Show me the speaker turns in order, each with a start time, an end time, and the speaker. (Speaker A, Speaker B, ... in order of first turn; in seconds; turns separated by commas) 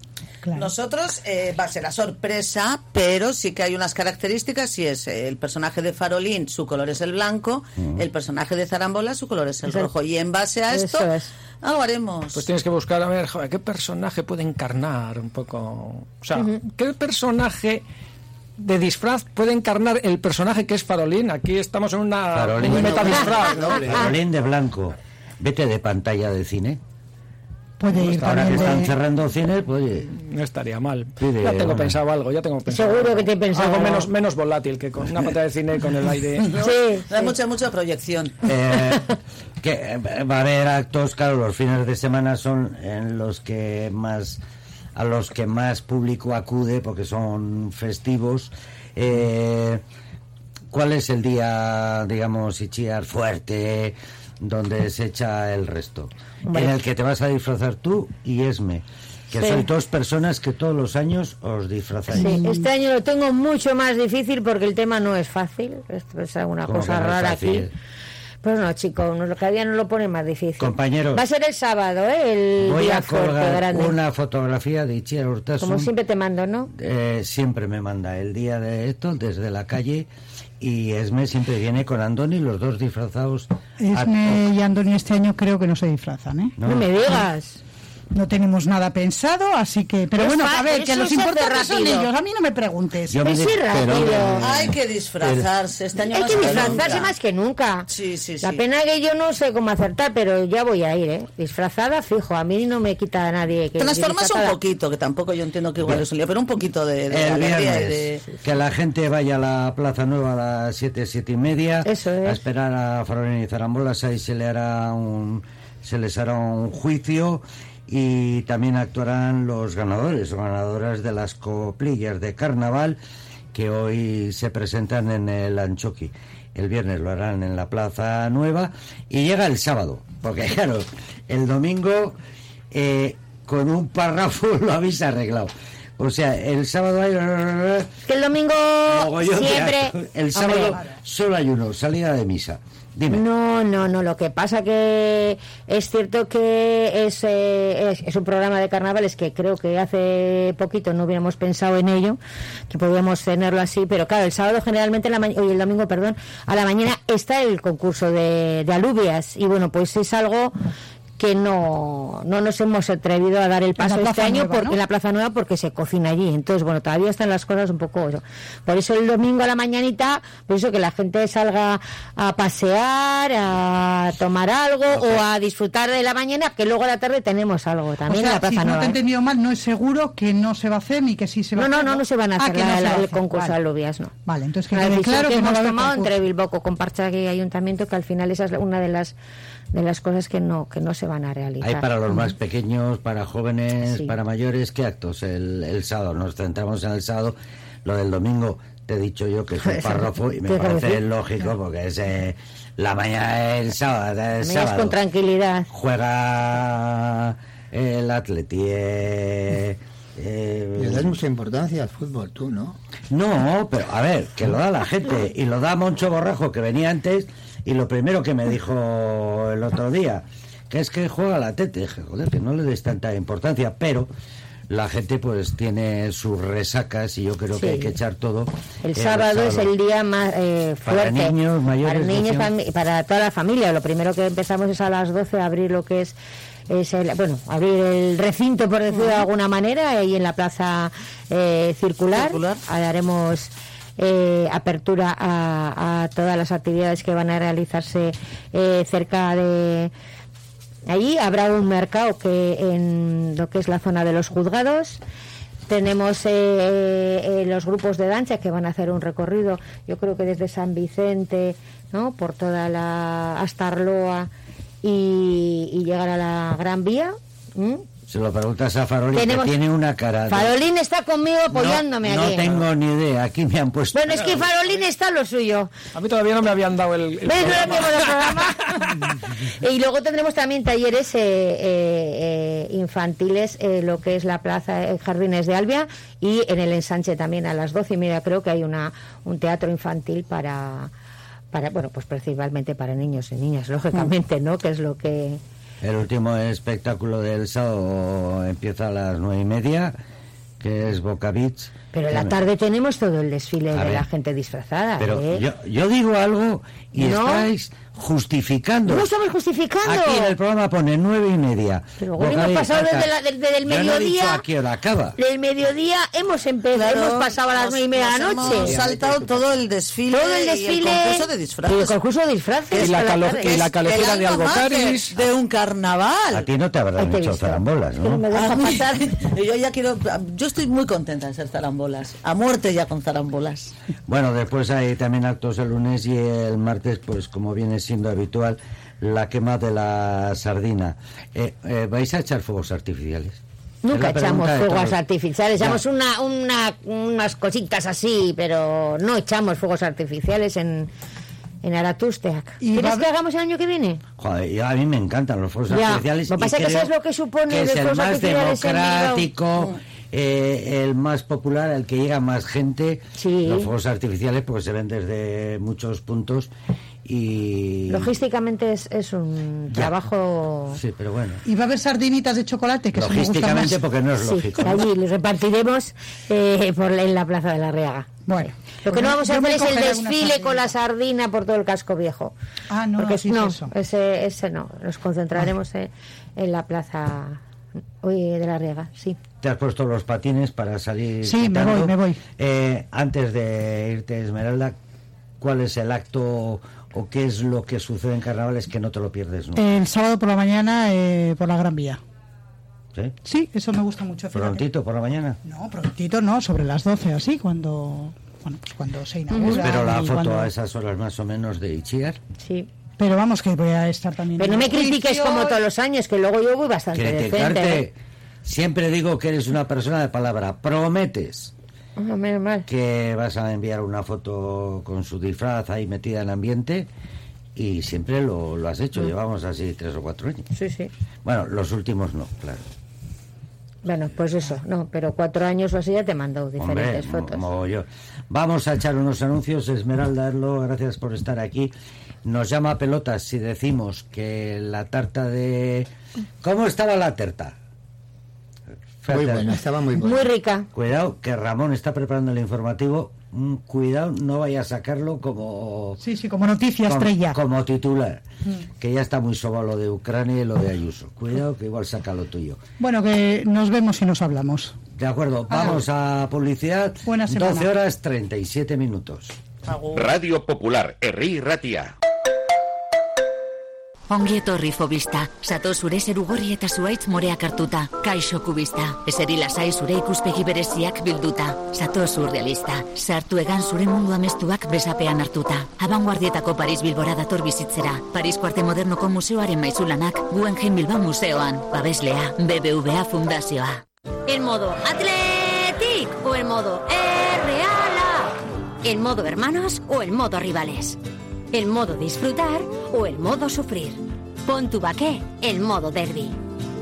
Speaker A: 0.4-0.7, Speaker B: 0.5-11.1, Speaker C: 7.8-8.1, Speaker D: 10.7-11.3, Speaker B: 11.6-12.4, Speaker E: 12.3-17.8, Speaker E: 18.6-23.8, Speaker C: 22.3-26.8, Speaker F: 22.6-24.2, Speaker A: 27.8-29.0, Speaker C: 27.9-30.1, Speaker E: 30.1-36.5, Speaker C: 31.2-32.0, Speaker D: 32.7-34.1, Speaker B: 36.5-38.4, Speaker D: 36.6-37.3, Speaker C: 38.4-44.4, Speaker C: 45.0-49.8, Speaker C: 50.7-62.4, Speaker D: 56.5-56.8, Speaker D: 59.4-59.7, Speaker A: 62.1-62.7, Speaker D: 62.1-67.7, Speaker C: 66.7-67.7, Speaker D: 68.4-74.0, Speaker C: 70.6-71.2, Speaker C: 72.6-75.9, Speaker D: 75.6-76.7, Speaker C: 76.7-80.1, Speaker C: 80.6-84.5, Speaker A: 83.8-86.6, Speaker C: 86.6-87.2, Speaker D: 86.7-87.6, Speaker A: 88.1-93.2, Speaker D: 90.1-92.1, Speaker C: 93.1-94.1, Speaker D: 93.2-94.5, Speaker F: 93.7-95.5, Speaker B: 94.4-97.1, Speaker D: 96.1-97.9, Speaker F: 96.3-97.0, Speaker B: 97.9-98.6, Speaker D: 98.4-104.6, Speaker B: 103.8-108.2, Speaker C: 107.1-123.0, Speaker D: 111.8-112.4, Speaker C: 123.5-132.2, Speaker C: 132.7-137.9, Speaker D: 138.1-140.8, Speaker C: 138.9-143.2, Speaker D: 143.1-152.2, Speaker D: 152.7-160.6, Speaker D: 161.2-179.0, Speaker A: 163.8-164.8, Speaker C: 174.9-175.2, Speaker A: 178.1-183.6, Speaker D: 181.6-184.1, Speaker A: 184.2-186.1, Speaker D: 184.7-189.2, Speaker D: 189.7-192.3, Speaker C: 191.6-205.0, Speaker D: 193.9-194.1, Speaker D: 199.6-201.0, Speaker D: 204.4-205.7, Speaker C: 205.7-211.2, Speaker F: 210.8-212.8, Speaker C: 213.1-224.1, Speaker C: 224.7-229.7, Speaker D: 227.6-228.0, Speaker D: 228.8-236.2, Speaker C: 230.8-232.5, Speaker D: 236.7-249.9, Speaker B: 238.9-239.2, Speaker B: 242.1-242.6, Speaker D: 250.9-255.0, Speaker D: 255.7-264.3, Speaker D: 264.8-267.9, Speaker C: 268.1-270.6, Speaker D: 269.1-269.6, Speaker D: 270.3-272.6, Speaker C: 271.5-274.5, Speaker D: 273.9-275.7, Speaker E: 275.9-278.8, Speaker D: 277.3-278.9, Speaker D: 279.6-290.9, Speaker D: 291.5-295.4, Speaker C: 295.8-300.0, Speaker C: 300.6-302.4, Speaker D: 301.9-305.4, Speaker C: 303.7-304.1, Speaker C: 305.0-309.1, Speaker D: 307.0-307.5, Speaker D: 308.9-310.3, Speaker C: 309.9-313.1, Speaker D: 312.0-314.4, Speaker C: 313.6-315.2, Speaker D: 315.2-318.8, Speaker B: 316.7-322.0, Speaker F: 318.4-319.5, Speaker D: 320.1-323.7, Speaker B: 322.7-326.5, Speaker E: 322.8-325.2, Speaker C: 326.3-328.2, Speaker D: 327.0-329.0, Speaker B: 328.3-333.7, Speaker C: 334.1-345.0, Speaker D: 343.8-350.9, Speaker C: 345.6-345.8, Speaker D: 351.6-354.0, Speaker A: 352.6-353.1, Speaker C: 354.2-356.9, Speaker D: 355.7-359.3, Speaker C: 357.5-366.5, Speaker D: 363.2-363.7, Speaker C: 367.1-368.1, Speaker D: 367.9-370.8, Speaker C: 370.7-371.4, Speaker A: 371.4-373.8, Speaker C: 372.9-374.9, Speaker D: 374.2-378.2, Speaker A: 378.3-380.7, Speaker D: 378.8-382.3, Speaker A: 382.7-383.7, Speaker D: 383.0-387.4, Speaker D: 388.0-389.2, Speaker C: 389.4-394.8, Speaker A: 391.2-392.2, Speaker C: 395.4-399.8, Speaker A: 399.6-402.0, Speaker A: 403.2-404.7, Speaker C: 404.3-405.4, Speaker A: 405.4-410.5, Speaker D: 409.3-409.8, Speaker C: 409.4-412.2, Speaker D: 412.4-412.7, Speaker A: 413.0-415.6, Speaker D: 414.4-417.9, Speaker C: 416.9-421.5, Speaker D: 422.0-422.7, Speaker C: 422.7-426.9, Speaker C: 427.6-430.5, Speaker D: 430.5-430.9, Speaker C: 431.2-432.7, Speaker D: 433.8-437.4, Speaker C: 436.6-441.7, Speaker C: 442.2-445.9, Speaker C: 446.4-447.6, Speaker C: 449.0-449.6, Speaker F: 449.1-450.3, Speaker D: 450.0-450.7, Speaker C: 450.7-456.0, Speaker A: 456.0-457.4, Speaker C: 456.9-458.2, Speaker C: 458.8-462.6, Speaker A: 462.8-464.8, Speaker C: 464.9-469.4, Speaker A: 465.5-465.8, Speaker A: 467.1-467.7, Speaker B: 469.7-470.2, Speaker G: 469.9-471.9, Speaker H: 474.1-493.8, Speaker I: 494.3-501.0, Speaker I: 501.5-506.4